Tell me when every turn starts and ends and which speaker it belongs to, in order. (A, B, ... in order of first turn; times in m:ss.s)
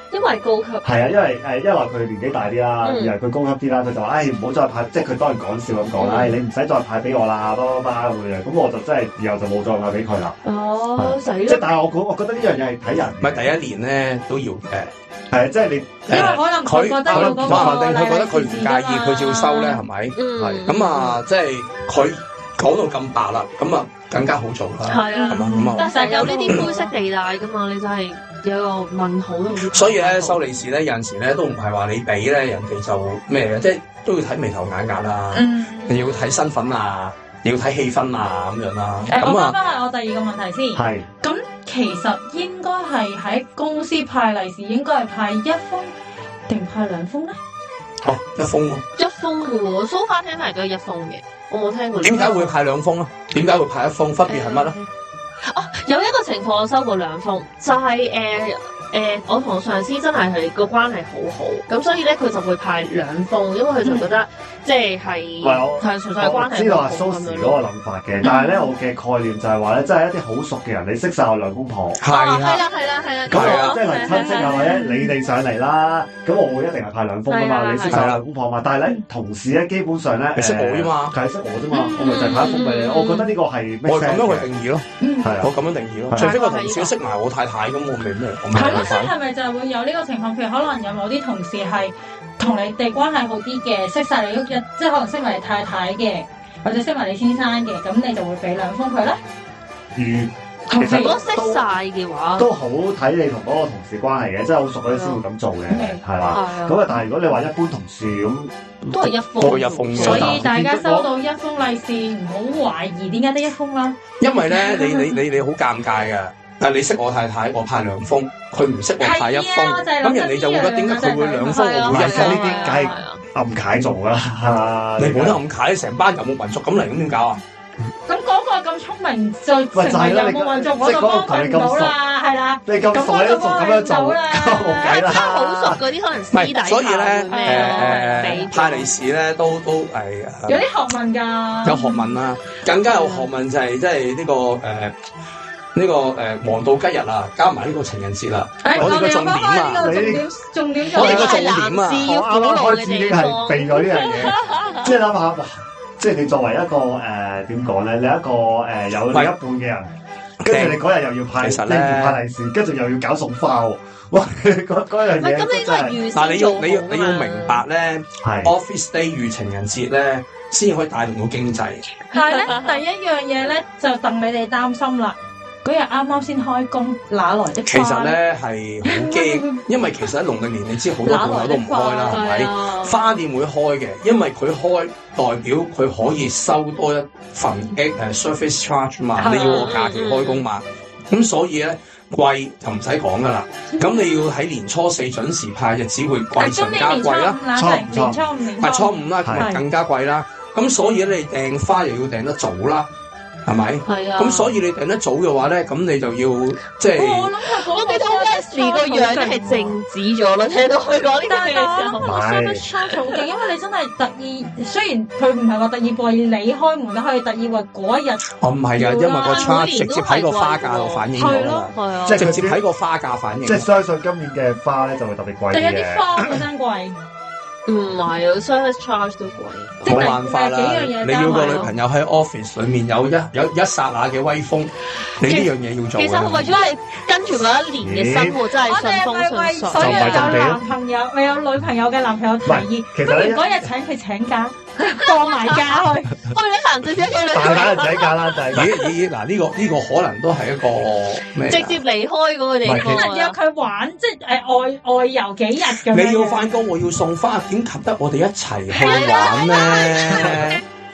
0:00.1-0:00.8 A
0:00.8-0:10.4 B
0:02.8-0:03.1 A
0:06.0-0:06.3 A
0:10.4-0:11.7 A
0:11.0-0:13.5 B
0:13.2-0:14.9 C
0:15.3-0:16.4 B
0:16.1-0:26.7 C
0:16.1-0:19.8 D
0:17.1-0:17.9 B
0:20.1-0:21.2 A
0:20.4-0:20.6 B
0:24.9-0:30.4 A
0:25.1-0:26.9 D
0:29.7-0:39.6 C
0:35.3-0:36.0 D
0:35.9-0:36.4 A
0:39.1-0:45.9 D
0:40.7-0:41.1 B
0:46.5-0:47.4 D
0:48.0-0:48.8 C
0:49.0-0:52.5 A
0:52.0-0:54.7 C
0:54.2-0:54.9 A
0:55.4-1:07.6 A
1:03.8-1:04.1 D
1:05.4-1:12.0 B
1:08.2-1:08.7 D
1:12.0-1:12.6 C
1:12.1-1:14.6 A
1:13.3-1:13.8 C
1:13.3-1:24.5 B
1:13.8-1:15.1 D
1:17.3-1:18.1 A
1:17.9-1:18.2 C
1:20.3-1:21.1 C
1:21.7-1:22.5 D
1:21.9-1:23.3 A
1:23.8-1:24.8 C
1:25.0-1:25.3 D
1:25.2-1:25.5 B
1:25.4-1:29.1 C
1:26.1-1:26.9 A
1:28.5-1:39.2 D
1:39.9-1:41.7 B
1:40.7-1:41.2 D
1:40.8-1:42.5 A
1:42.4-1:51.1 B
1:44.9-1:45.2 A
1:45.7-1:46.0 D
1:46.3-1:46.9 A
1:48.9-1:50.4 A
1:49.4-1:50.4 C
1:50.0-1:54.0 D
1:54.2-2:02.6 C
1:54.5-1:55.1 D
1:59.0-2:01.8 D
2:01.5-2:03.2 A
2:01.9-2:05.4 B
2:05.0-2:07.4 C
2:08.1-2:15.1 D
2:09.7-2:11.9 B
2:12.6-2:15.8 B
2:14.8-2:18.9 A
2:16.3-2:20.6 C
2:17.3-2:18.5 D
2:20.5-2:22.1 D
2:21.6-2:24.9 C
2:22.8-2:23.2 A
2:25.7-2:29.9 C
2:28.6-2:31.5 D
2:28.7-2:29.2 B
2:29.7-2:30.2 B
2:30.9-2:34.9 A
2:30.9-2:32.1 C
2:31.0-2:39.9 B
2:33.9-2:34.3 C
2:40.4-2:40.8 C
2:40.4-2:46.0 B
2:41.4-2:42.2 C
2:45.2-2:47.6 A
2:46.1-2:51.8 C
2:48.2-2:48.5 B
2:52.1-2:58.2 D
2:52.1-2:52.8 A
2:57.6-3:17.4 C
2:58.8-2:59.6 D
3:01.0-3:02.2 D
3:02.1-3:03.0 A
3:09.2-3:09.7 D
3:09.2-3:10.4 A
3:16.4-3:19.6 D
3:17.5-3:18.2 B
3:18.6-3:22.9 C
3:19.2-3:19.5 B
3:23.4-3:27.3 C
3:23.8-3:24.6 A
3:26.9-3:29.8 D
3:27.5-3:32.0 A
3:31.3-3:38.3 D
3:32.0-3:32.6 B
3:38.4-3:43.7 C
3:38.8-3:41.1 A
3:38.8-3:39.4 D
3:41.1-3:41.7 D
3:41.7-3:42.3 A
3:42.0-3:42.6 B
3:43.4-3:46.0 B
3:45.5-3:47.0 D
3:47.6-3:49.8 A
3:49.8-3:51.7 D
3:49.8-3:56.6 C
3:49.9-3:50.1 B
3:55.2-4:00.5 A
3:57.8-3:58.4 B
3:58.6-4:06.2 D
3:59.7-4:00.6 B
4:02.4-4:03.7 B
4:04.8-4:05.7 A
4:06.3-4:08.9 A
4:07.3-4:08.7 B
4:08.5-4:11.8 C
4:11.5-4:13.3 A
4:12.6-4:13.1 B
4:12.7-4:16.4 D
4:15.7-4:20.6 C
4:18.7-4:20.3 A
4:18.8-4:20.0 D